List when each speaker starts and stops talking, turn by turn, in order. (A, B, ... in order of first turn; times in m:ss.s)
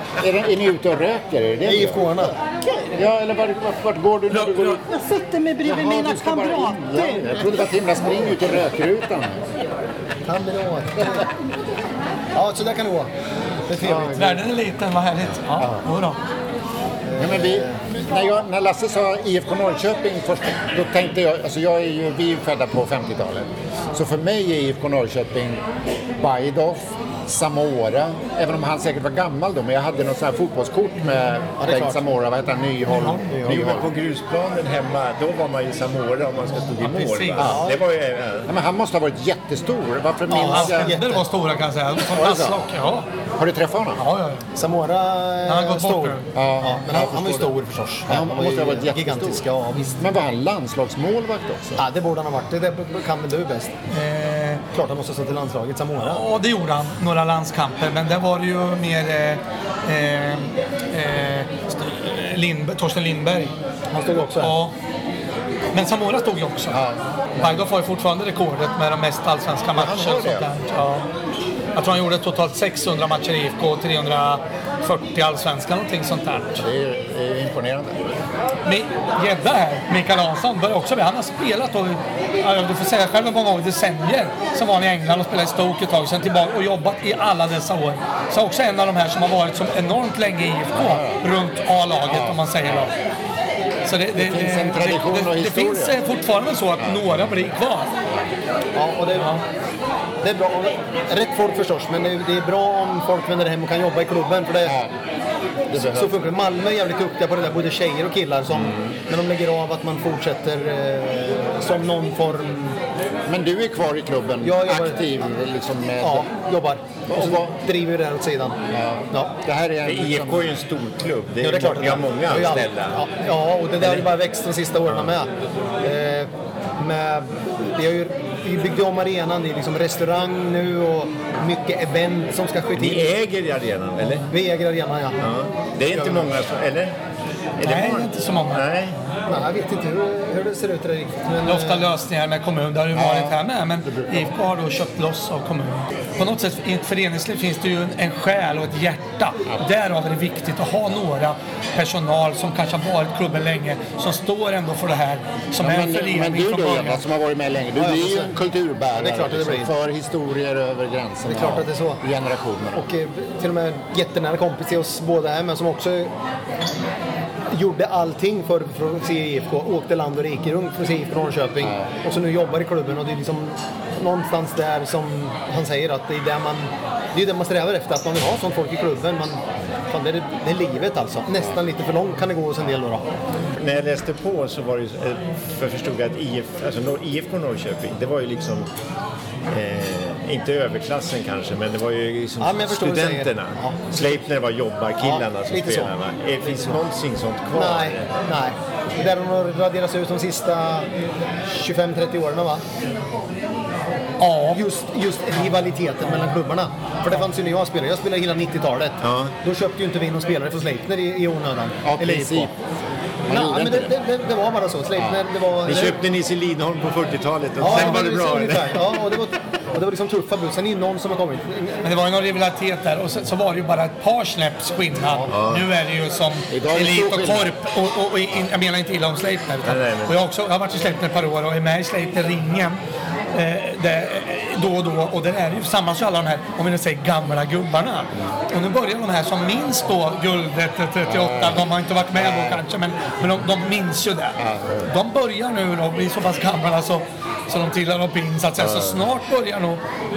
0:00.2-0:02.3 A
0:01.6-0:02.3 B
0:02.6-0:03.0 C
0:02.9-0:04.8 A
0:04.3-0:04.8 D
0:04.8-0:07.6 C
0:05.6-0:09.4 A
0:10.2-0:11.3 B
0:12.3-0:13.1 B
0:13.7-0:14.4 B
0:13.8-0:14.2 A
0:14.1-0:16.2 D
0:17.1-0:17.8 B
0:17.2-0:25.6 A
0:26.2-0:33.9 A
0:31.6-0:32.0 B
0:32.9-0:33.7 B
0:33.4-0:38.5 E
0:36.8-0:37.6 D
0:37.4-0:37.8 B
0:38.4-0:41.0 A
0:40.3-0:41.2 B
0:40.3-0:43.1 D
0:42.1-0:42.6 A
0:43.4-0:44.0 A
0:44.0-0:44.4 D
0:44.5-0:50.1 B
0:45.4-0:46.3 D
0:46.3-0:47.5 A
0:48.1-0:49.4 A
0:50.0-0:51.8 A
0:51.8-0:53.7 B
0:53.9-0:54.6 D
0:54.7-0:56.2 B
0:56.0-1:03.5 D
1:03.9-1:04.5 B
1:04.4-1:04.7 D
1:05.7-1:06.8 D
1:06.7-1:07.6 A
1:07.3-1:11.0 D
1:09.7-1:10.5 A
1:11.7-1:16.6 D
1:16.6-1:18.0 A
1:18.6-1:32.9 D
1:30.7-1:31.2 A
1:32.0-1:32.9 A
1:33.8-1:37.9 D
1:34.1-1:36.0 A
1:36.8-1:37.3 A
1:38.7-1:39.4 B
1:39.2-1:39.4 D
1:40.2-1:44.7 B
1:44.6-1:44.9 A
1:45.7-1:46.2 A
1:45.7-1:52.8 B
1:48.5-1:48.9 E
1:53.3-1:56.3 A
1:54.4-1:55.0 B
1:56.0-1:58.6 B
1:57.1-1:57.6 A
1:58.7-2:00.5 A
1:59.8-2:03.0 E
2:01.4-2:05.3 B
2:05.8-2:13.1 B
2:12.7-2:14.3 E
2:14.2-2:15.2 B
2:15.2-2:16.9 E
2:15.9-2:16.3 B
2:17.6-2:18.9 E
2:17.6-2:18.6 D
2:19.3-2:21.9 B
2:21.4-2:37.0 D
2:22.9-2:24.4 A
2:35.6-2:42.9 A
2:37.7-2:38.3 B
2:38.9-2:39.7 B
2:41.2-2:42.0 B
2:42.7-2:46.1 B
2:47.5-3:03.0 B
2:51.6-2:51.9 A
3:03.5-3:08.7 E
3:09.5-3:18.2 E
3:12.4-3:14.2 B
3:15.0-3:16.8 B
3:17.5-3:20.9 B
3:21.5-3:22.6 B
3:24.2-3:24.6 D
3:24.5-3:32.5 B
3:29.0-3:29.3 E
3:31.8-3:32.5 A
3:33.3-3:34.0 A
3:33.3-3:36.0 B
3:34.9-3:35.2 A
3:35.6-3:38.9 E
3:37.6-3:41.8 B
3:37.6-3:38.0 D
3:41.8-3:52.8 D
3:45.3-3:45.6 E
3:46.5-3:47.5 A
3:49.6-3:50.2 E
3:53.3-4:09.8 D
4:01.0-4:02.6 A
4:04.4-4:04.9 A
4:08.6-4:09.0 E